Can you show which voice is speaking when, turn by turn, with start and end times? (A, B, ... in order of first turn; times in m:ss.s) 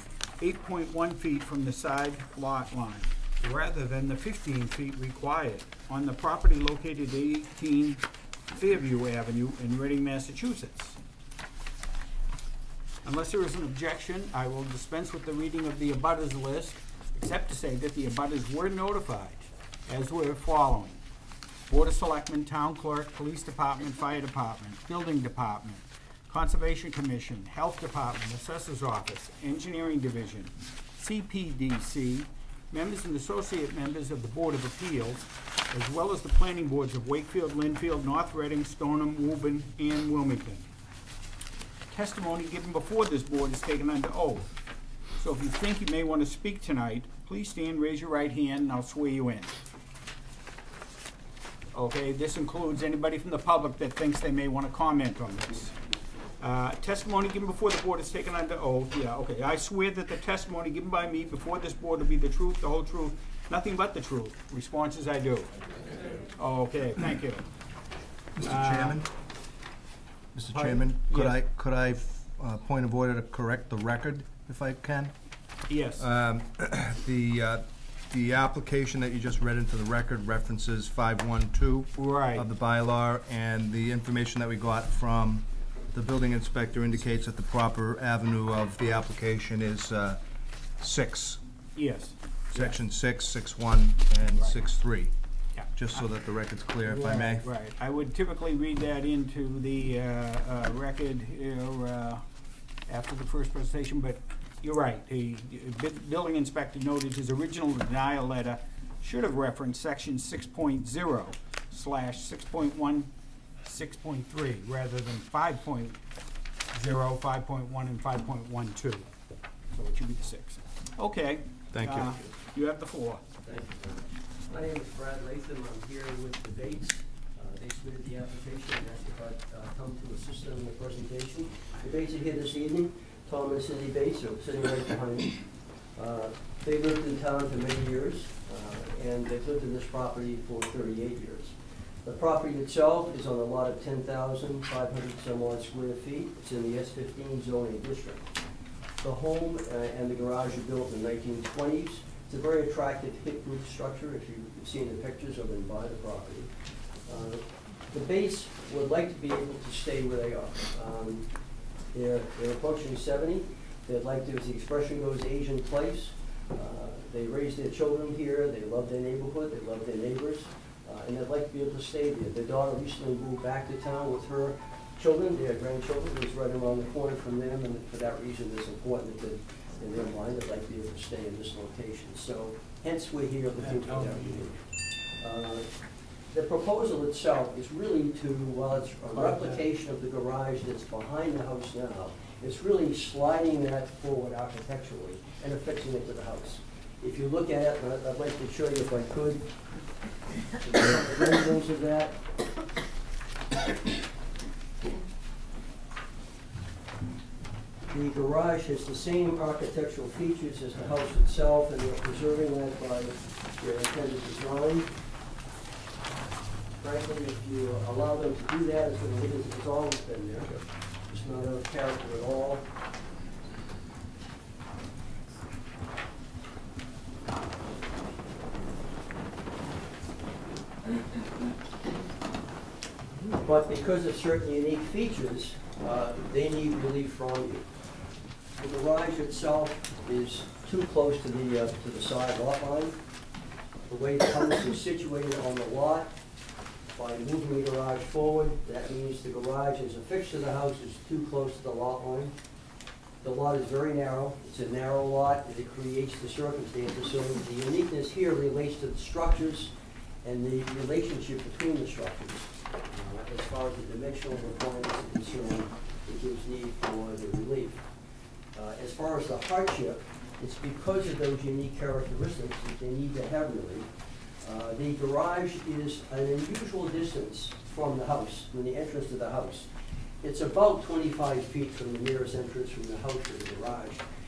0:00.4-0:11.0 A
0:13.0-0:21.0 A
0:21.7-0:40.7 A
0:41.9-0:44.5 A
0:45.2-0:49.6 A
0:51.7-0:55.8 A
0:56.4-1:05.5 A
1:06.2-1:07.4 A
1:08.4-1:09.1 B
1:08.4-1:09.0 A
1:10.4-1:15.1 B
1:10.5-1:11.4 A
1:15.7-1:16.1 A
1:16.0-1:30.2 B
1:22.0-1:22.5 A
1:30.8-1:31.4 B
1:31.8-1:32.8 A
1:32.5-1:35.1 B
1:34.3-1:34.6 A
1:35.6-1:36.1 A
1:35.7-1:37.5 B
1:36.8-1:42.2 A
1:42.9-1:53.1 A
1:53.7-1:56.0 A
1:56.7-1:59.1 A
1:59.7-2:03.3 A
2:01.7-2:02.2 B
2:03.5-2:15.4 C
2:16.0-2:21.5 C
2:22.0-2:28.3 C
2:29.0-2:36.5 C
2:37.1-2:41.3 C
2:41.9-3:04.6 C
3:03.6-3:04.5 A
3:05.2-3:05.7 C
3:06.3-3:19.5 C
3:09.1-3:09.6 A
3:20.6-3:22.2 C
3:27.9-3:34.9 C
3:36.8-3:40.5 C
3:41.1-3:42.6 C
3:53.3-3:57.7 C
3:58.6-4:03.0 C
4:03.9-4:06.1 C
4:06.9-4:12.3 C
4:13.2-4:19.7 C
4:20.2-4:27.8 C
4:28.6-4:33.9 C
4:34.4-4:39.7 C
4:40.2-4:44.0 C